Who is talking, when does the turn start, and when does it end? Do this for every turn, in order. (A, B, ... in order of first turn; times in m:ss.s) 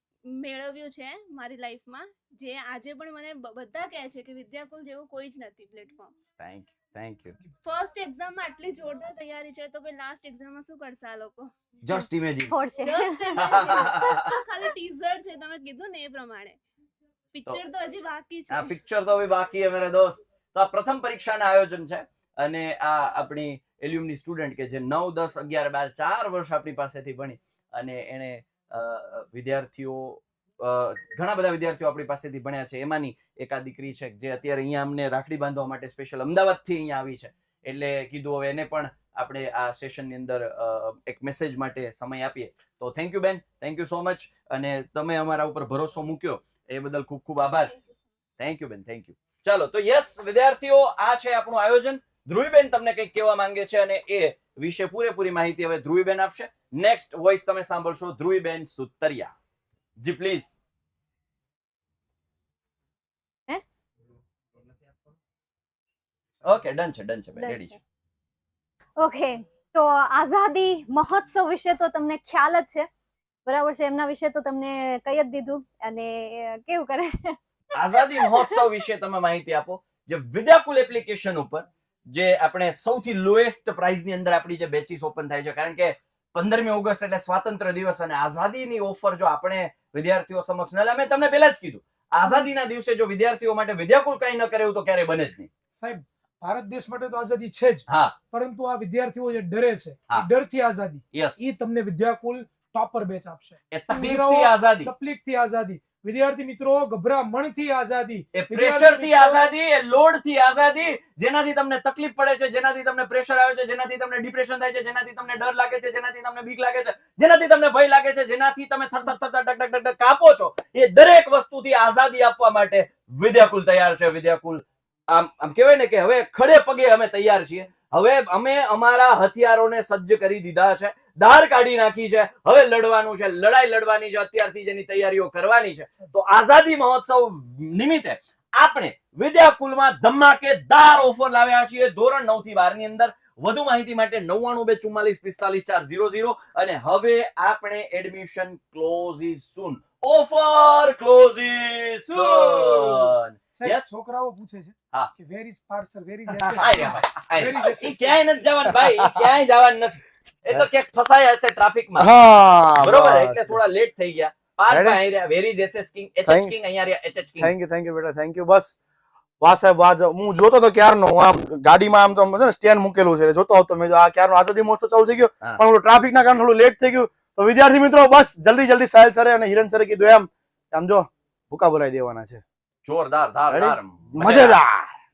0:00.3-0:06.1 A
0:06.4-0:07.4 B
0:07.6-0:11.5 A
0:11.8-0:12.5 B
0:12.4-0:13.9 C
0:12.8-0:16.6 A
0:13.4-0:14.3 B
0:17.3-0:18.7 A
0:18.5-0:47.7 B
0:48.4-0:59.3 B
1:00.0-1:00.6 B
1:06.4-1:07.8 B
1:07.4-1:07.8 C
1:09.0-1:12.9 C
1:13.5-1:18.7 C
1:17.8-1:35.5 B
1:35.8-1:49.5 D
1:37.9-1:38.2 B
1:41.1-1:41.4 B
1:43.7-1:44.9 B
1:48.3-2:33.8 B
2:32.0-2:38.2 D
2:36.5-2:42.1 B
2:38.8-2:39.1 E
2:42.0-2:43.5 E
2:42.8-2:47.5 B
2:44.7-2:45.0 E
2:46.2-2:46.6 E
2:47.4-2:48.8 E
2:49.4-3:02.4 E
3:02.8-3:04.6 B
3:03.5-3:04.9 E